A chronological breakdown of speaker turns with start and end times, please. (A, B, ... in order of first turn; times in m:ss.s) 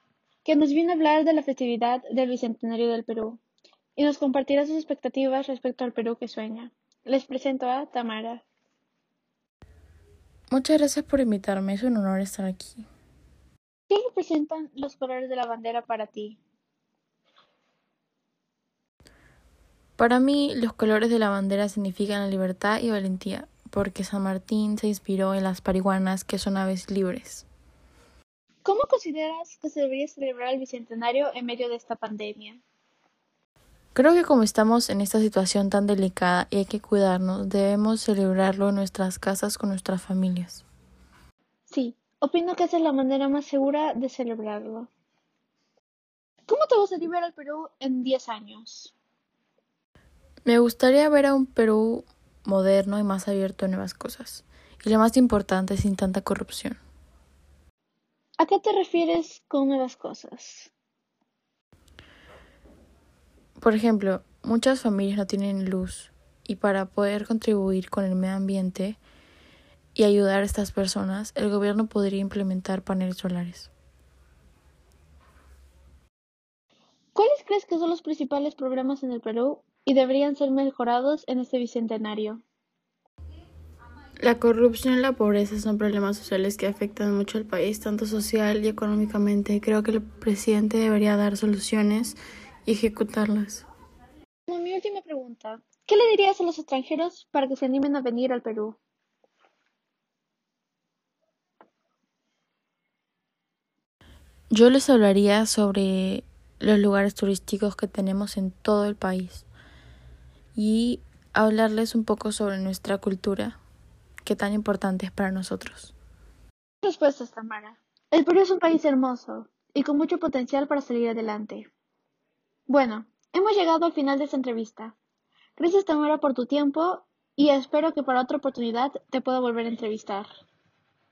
0:00.4-0:03.4 A
0:04.0-0:08.4 A
0:10.5-0:12.9 B
0:13.9-0:16.4 A
0:20.0-0:27.5 B
0:28.6-0:32.6 A
0:34.0-0:40.6 B
0:41.7-0:44.9 A
0:46.5-0:48.9 A
0:50.4-0:56.8 B
0:58.4-1:00.7 A
1:03.6-1:09.0 B
1:10.0-1:13.7 B
1:17.2-1:22.4 A
1:24.2-1:33.6 B
1:34.5-1:38.8 A
1:44.5-1:49.4 B
1:50.6-1:53.6 B
1:54.2-1:55.9 B
1:56.8-2:01.7 A
2:02.7-2:05.0 A
2:05.6-2:10.3 A